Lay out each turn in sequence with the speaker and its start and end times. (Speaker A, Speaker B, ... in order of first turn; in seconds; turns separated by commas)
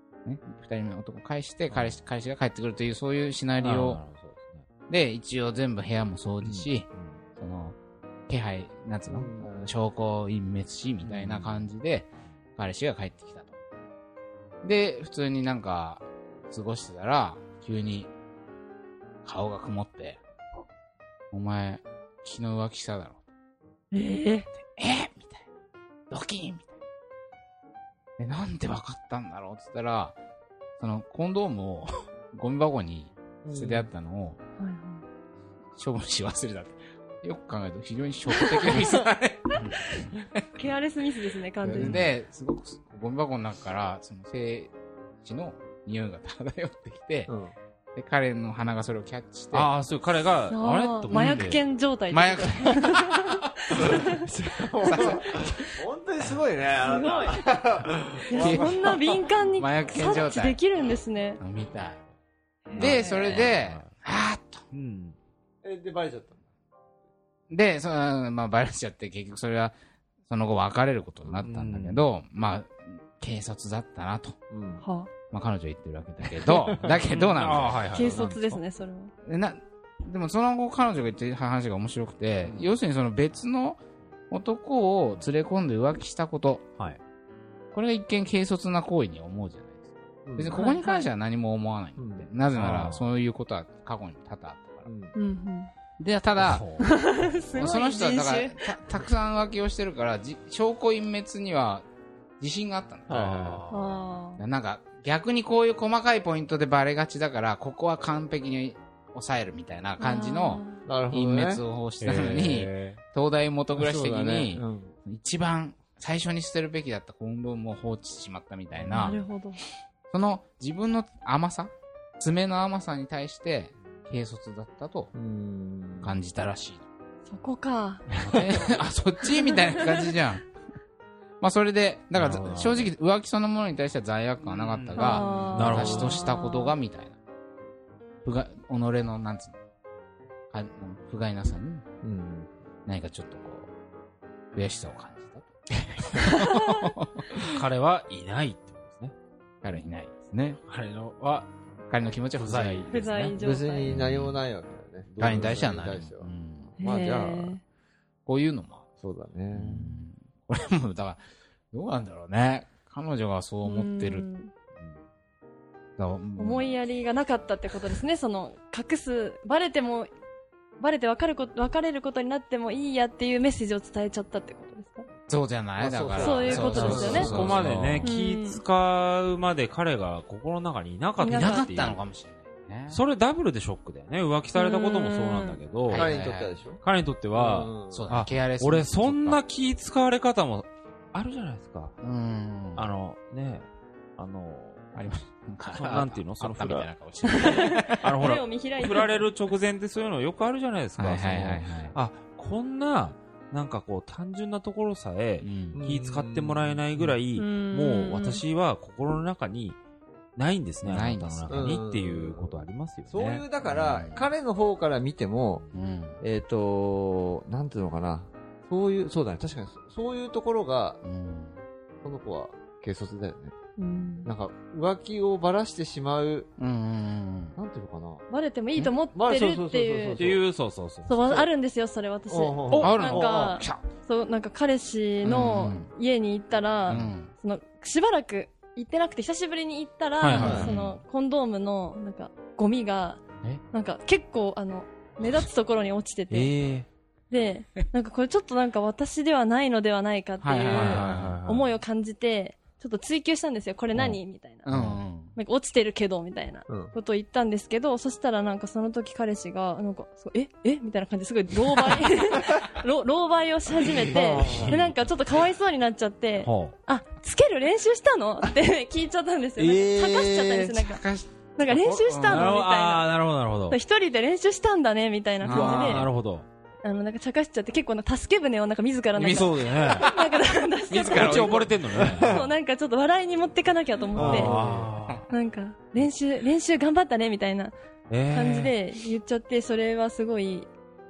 Speaker A: 0.2-4.0, Speaker B: 1.7-2.0, Speaker B: 3.6-4.7, Speaker A: 4.9-7.8, Speaker B: 6.5-7.2, Speaker A: 8.3-13.6, Speaker C: 9.1-9.5, Speaker B: 11.0-11.7, Speaker A: 14.6-18.1, Speaker A: 19.2-20.2, Speaker A: 21.3-23.2, Speaker D: 23.9-24.5, Speaker A: 24.7-25.4, Speaker A: 26.1-26.7, Speaker A: 28.2-30.1, Speaker A: 30.8-34.4, Speaker C: 33.4-33.9, Speaker D: 34.6-35.0, Speaker A: 35.8-40.4, Speaker D: 40.5-42.0, Speaker A: 41.6-47.3, Speaker C: 41.7-42.0, Speaker C: 47.3-47.5, Speaker A: 47.9-49.7, Speaker B: 49.5-51.6, Speaker D: 50.5-54.2, Speaker A: 51.1-51.6, Speaker A: 52.1-53.5, Speaker C: 53.7-59.2, Speaker A: 54.9-55.4, Speaker D: 56.8-57.5, Speaker D: 58.3-61.4, Speaker A: 58.3-60.6, Speaker A: 61.4-62.0, Speaker A: 62.7-64.6, Speaker D: 62.7-63.4, Speaker C: 62.8-63.0, Speaker B: 63.2-63.9, Speaker B: 64.7-65.2, Speaker C: 65.6-66.4, Speaker A: 67.5-69.7, Speaker A: 70.3-74.3, Speaker C: 71.3-71.7, Speaker B: 71.4-72.0, Speaker C: 74.5-74.8, Speaker D: 74.8-75.1, Speaker A: 75.3-78.3, Speaker C: 76.4-76.9, Speaker B: 76.8-78.6, Speaker D: 77.9-79.1, Speaker A: 79.2-83.8, Speaker C: 82.4-82.7, Speaker A: 84.3-86.6, Speaker A: 87.7-94.9, Speaker C: 90.3-90.7, Speaker D: 90.5-91.1, Speaker C: 92.0-92.3, Speaker B: 92.5-93.0, Speaker C: 94.8-95.2, Speaker D: 95.1-95.7, Speaker A: 96.0-96.8, Speaker B: 96.3-97.1, Speaker D: 96.8-98.7, Speaker A: 97.5-101.8, Speaker A: 102.4-103.3, Speaker C: 103.1-103.6, Speaker B: 103.1-104.1, Speaker D: 103.7-104.4, Speaker A: 104.4-119.2, Speaker D: 110.0-110.8, Speaker C: 110.8-111.6, Speaker B: 112.0-113.0, Speaker C: 113.8-114.9, Speaker C: 118.8-119.1, Speaker D: 118.9-119.6, Speaker A: 120.1-125.1, Speaker C: 125.1-126.2, Speaker A: 126.0-126.8, Speaker D: 127.3-128.1, Speaker B: 128.2-128.7, Speaker A: 128.2-130.4, Speaker D: 129.5-129.8, Speaker A: 131.4-137.2, Speaker B: 132.1-132.9, Speaker B: 134.4-136.2, Speaker D: 134.9-136.7, Speaker A: 138.2-139.6, Speaker A: 140.5-141.8, Speaker C: 142.0-142.5, Speaker A: 142.8-143.7, Speaker A: 144.5-145.5, Speaker A: 146.0-147.6, Speaker D: 146.4-146.8, Speaker B: 147.4-149.1, Speaker A: 149.6-150.6, Speaker B: 150.7-151.5, Speaker A: 151.9-153.3, Speaker B: 152.4-153.3, Speaker D: 152.9-153.9, Speaker C: 153.4-157.6, Speaker A: 153.9-154.3, Speaker B: 155.2-155.4, Speaker A: 155.2-156.8, Speaker D: 156.8-157.6, Speaker A: 158.2-158.8, Speaker C: 159.0-160.0, Speaker A: 159.5-161.2, Speaker A: 161.7-164.3, Speaker D: 163.6-164.5, Speaker A: 166.0-166.7, Speaker D: 166.4-170.1, Speaker D: 170.8-175.1, Speaker A: 175.3-178.1, Speaker C: 175.8-177.7, Speaker D: 176.2-177.3, Speaker B: 176.7-182.0, Speaker D: 178.0-178.6, Speaker D: 181.2-181.7, Speaker A: 181.2-183.0, Speaker B: 182.9-186.2, Speaker D: 184.5-185.6, Speaker A: 185.9-186.5, Speaker C: 185.9-186.8, Speaker B: 186.8-191.9, Speaker C: 187.3-188.1, Speaker A: 187.9-189.4, Speaker A: 192.0-192.9, Speaker B: 192.8-193.7, Speaker B: 194.2-194.9, Speaker A: 194.9-198.1, Speaker B: 195.7-196.9, Speaker D: 197.2-199.3, Speaker B: 198.0-209.8, Speaker A: 201.0-201.9, Speaker A: 205.4-205.8, Speaker C: 205.7-207.1, Speaker D: 207.3-208.4, Speaker B: 210.3-213.4, Speaker A: 210.8-211.8, Speaker C: 211.5-215.7, Speaker A: 213.6-214.3, Speaker A: 215.7-216.2, Speaker C: 216.2-221.0, Speaker A: 221.0-221.6, Speaker C: 222.0-223.5, Speaker D: 223.8-224.3, Speaker C: 224.2-226.5, Speaker A: 226.6-227.6, Speaker C: 227.6-228.2, Speaker D: 228.3-230.3, Speaker C: 229.1-230.4, Speaker B: 230.2-231.2, Speaker D: 231.1-246.5, Speaker C: 232.3-233.6, Speaker B: 232.7-232.9, Speaker A: 232.7-233.8, Speaker A: 235.2-235.9, Speaker A: 236.9-237.3, Speaker B: 240.2-240.8, Speaker A: 240.3-241.0, Speaker C: 240.4-240.7, Speaker B: 246.3-246.9, Speaker D: 247.3-254.7, Speaker A: 250.4-251.4, Speaker B: 250.7-251.7, Speaker A: 254.6-255.3, Speaker B: 254.7-255.0, Speaker D: 255.3-271.0, Speaker C: 256.7-256.9, Speaker C: 264.1-264.8, Speaker B: 264.2-264.9, Speaker B: 266.4-266.7, Speaker C: 269.6-270.7, Speaker A: 270.8-272.6, Speaker D: 271.6-273.1, Speaker B: 272.3-273.8, Speaker D: 273.7-276.1, Speaker A: 275.4-276.1, Speaker B: 275.4-276.4, Speaker D: 276.8-281.5, Speaker A: 279.1-282.0, Speaker B: 279.2-280.1, Speaker B: 281.1-282.3, Speaker C: 281.9-282.5, Speaker D: 282.2-284.5, Speaker C: 284.1-284.9, Speaker B: 284.1-285.3, Speaker D: 285.3-287.7, Speaker B: 288.1-288.7, Speaker D: 288.3-290.7